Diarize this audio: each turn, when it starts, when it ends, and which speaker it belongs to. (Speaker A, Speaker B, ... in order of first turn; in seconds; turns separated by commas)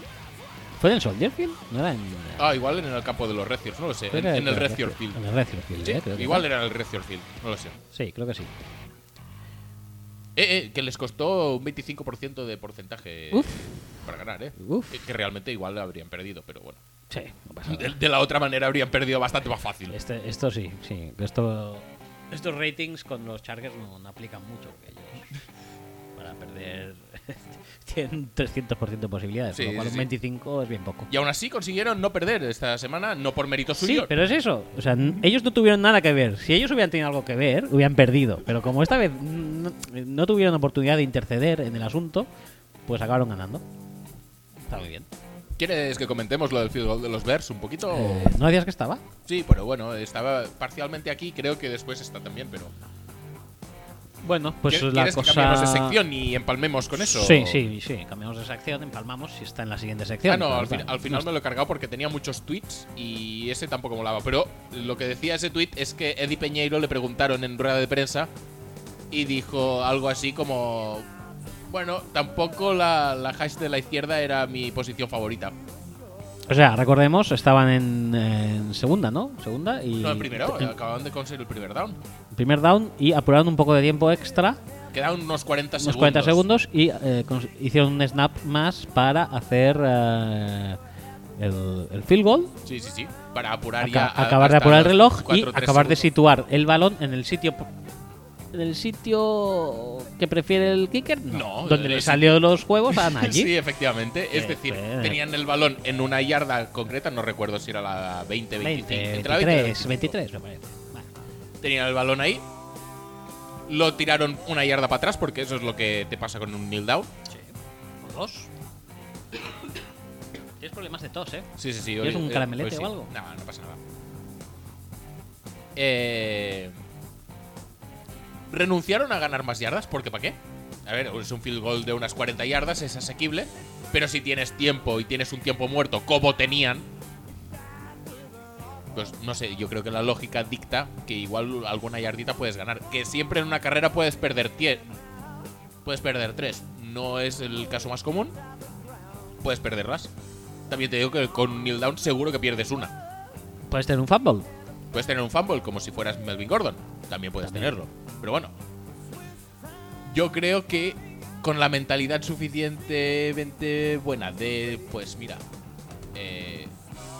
Speaker A: 0.8-2.5, Speaker B: 2.4-5.2, Speaker A: 4.1-6.5, Speaker B: 5.8-7.8, Speaker A: 7.9-8.5, Speaker B: 10.3-16.8, Speaker A: 13.3-13.6, Speaker A: 14.6-15.0, Speaker A: 17.1-18.0, Speaker B: 17.7-20.0, Speaker A: 19.9-25.3, Speaker A: 26.2-31.1, Speaker B: 29.5-30.1, Speaker B: 31.1-34.1, Speaker A: 33.8-42.3, Speaker A: 42.9-43.6, Speaker A: 44.7-45.1, Speaker B: 45.6-48.4, Speaker A: 47.9-49.0, Speaker B: 49.3-52.7, Speaker A: 54.2-56.0, Speaker B: 54.7-57.7, Speaker A: 57.0-61.2, Speaker B: 60.3-68.3, Speaker B: 69.1-71.1, Speaker B: 71.7-75.6, Speaker A: 76.5-80.8, Speaker B: 80.0-82.0, Speaker A: 82.3-84.6, Speaker B: 84.9-86.4, Speaker A: 85.8-90.8, Speaker A: 91.4-92.6, Speaker B: 92.7-96.1, Speaker A: 93.8-97.7, Speaker A: 98.5-103.5, Speaker B: 101.3-102.3, Speaker B: 102.9-110.2, Speaker A: 104.3-105.2, Speaker A: 108.6-111.1, Speaker B: 111.6-112.5, Speaker B: 113.7-117.1, Speaker A: 117.3-118.5, Speaker A: 120.6-121.5, Speaker B: 121.6-123.8, Speaker A: 122.0-123.1, Speaker B: 125.8-126.8, Speaker B: 128.5-136.9, Speaker B: 138.9-144.9, Speaker B: 145.8-148.4, Speaker B: 149.4-150.1, Speaker B: 150.7-153.0, Speaker A: 153.7-154.5, Speaker B: 154.9-158.5, Speaker A: 157.4-157.8, Speaker B: 160.1-165.4, Speaker B: 166.1-166.7